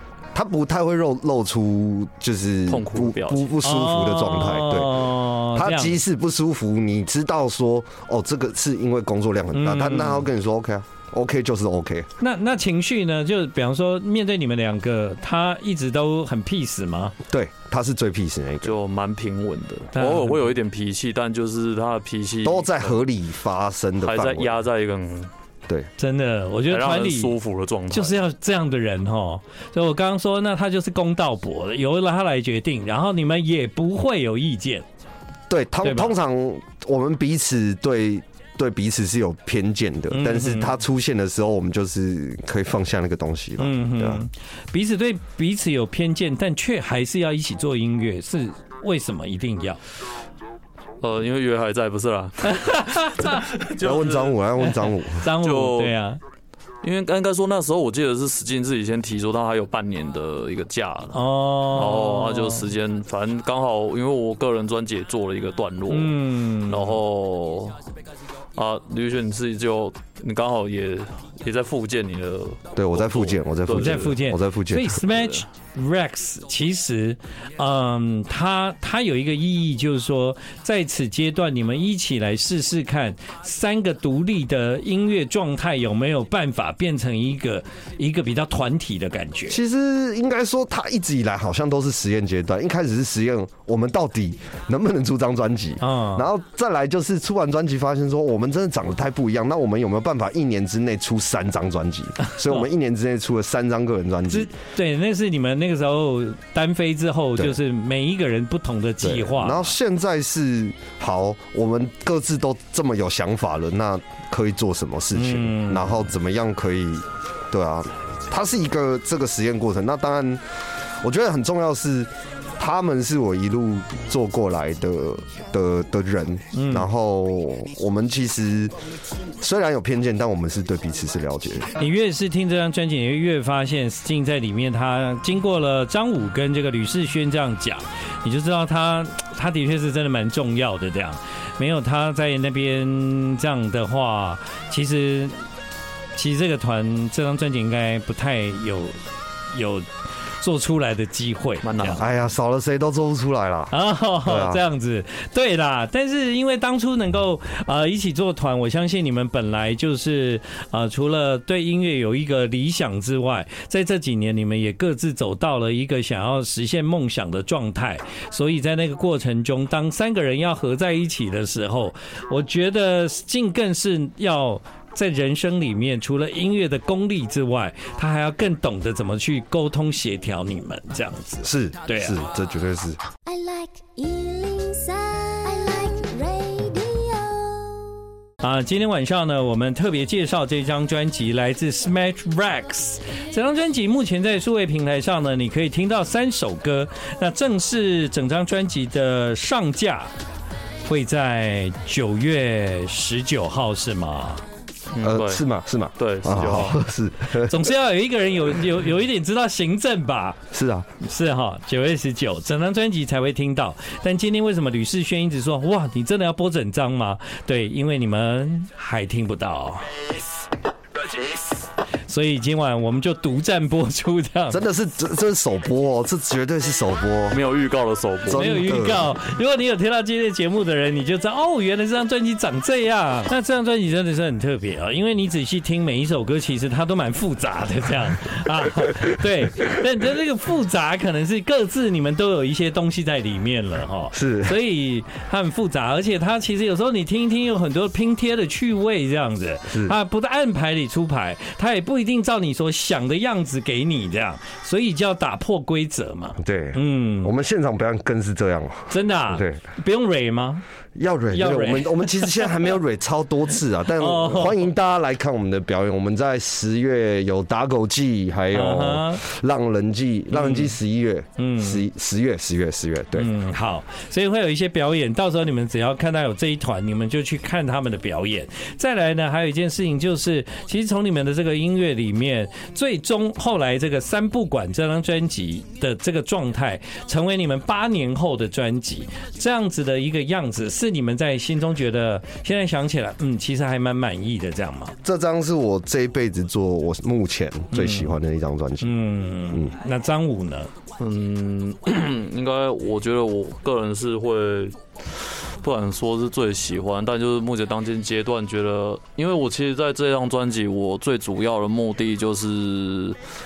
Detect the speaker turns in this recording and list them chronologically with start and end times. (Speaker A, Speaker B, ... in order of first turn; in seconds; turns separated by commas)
Speaker A: 0.3-12.1, Speaker B: 2.7-3.5, Speaker C: 3.6-6.0, Speaker C: 9.5-10.3, Speaker C: 12.2-17.2, Speaker A: 17.3-18.7, Speaker B: 18.6-23.0, Speaker C: 19.9-20.5, Speaker A: 22.4-24.5, Speaker B: 24.0-25.3, Speaker C: 26.0-27.3, Speaker B: 26.7-28.2, Speaker C: 27.9-34.9, Speaker A: 35.5-44.2, Speaker C: 35.8-36.1, Speaker C: 40.1-40.8, Speaker C: 43.6-49.8, Speaker B: 51.0-54.5, Speaker C: 52.5-53.5, Speaker A: 53.8-55.3, Speaker C: 54.7-56.2, Speaker B: 55.3-56.0, Speaker B: 56.8-67.8, Speaker C: 61.1-62.7, Speaker C: 65.9-67.0, Speaker B: 68.5-74.2, Speaker A: 72.8-75.0, Speaker C: 73.7-89.6, Speaker B: 75.1-75.4, Speaker A: 89.5-104.5, Speaker C: 95.8-96.3, Speaker C: 102.3-102.6, Speaker C: 104.3-109.7, Speaker A: 109.0-120.4, Speaker C: 115.1-116.0, Speaker A: 121.0-128.7, Speaker C: 126.5-126.9, Speaker A: 129.4-131.7, Speaker C: 131.8-145.4, Speaker C: 146.2-149.0, Speaker C: 149.5-152.0, Speaker B: 151.6-152.1, Speaker A: 152.0-154.6, Speaker C: 153.7-182.2, Speaker A: 181.4-183.0, Speaker D: 183.2-188.0, Speaker C: 188.4-200.1, Speaker C: 200.8-204.4, Speaker B: 204.9-205.5, Speaker A: 205.0-207.7, Speaker B: 206.0-206.8, Speaker C: 207.4-210.4, Speaker A: 210.5-210.9, Speaker C: 211.0-219.9, Speaker C: 222.1-224.6, Speaker A: 224.5-227.4, Speaker B: 227.3-228.6, Speaker A: 228.3-229.1, Speaker C: 228.3-257.3, Speaker A: 244.1-244.6, Speaker A: 249.7-250.0, Speaker A: 256.4-259.6, Speaker C: 258.9-260.6, Speaker A: 261.0-273.3, Speaker C: 261.3-262.5, Speaker C: 264.0-264.7, Speaker C: 268.5-269.2, Speaker C: 270.3-270.8, Speaker C: 271.4-271.8, Speaker C: 273.2-294.9, Speaker A: 295.0-298.9, Speaker C: 297.7-298.1, Speaker C: 298.8-300.7, Speaker B: 301.0-313.2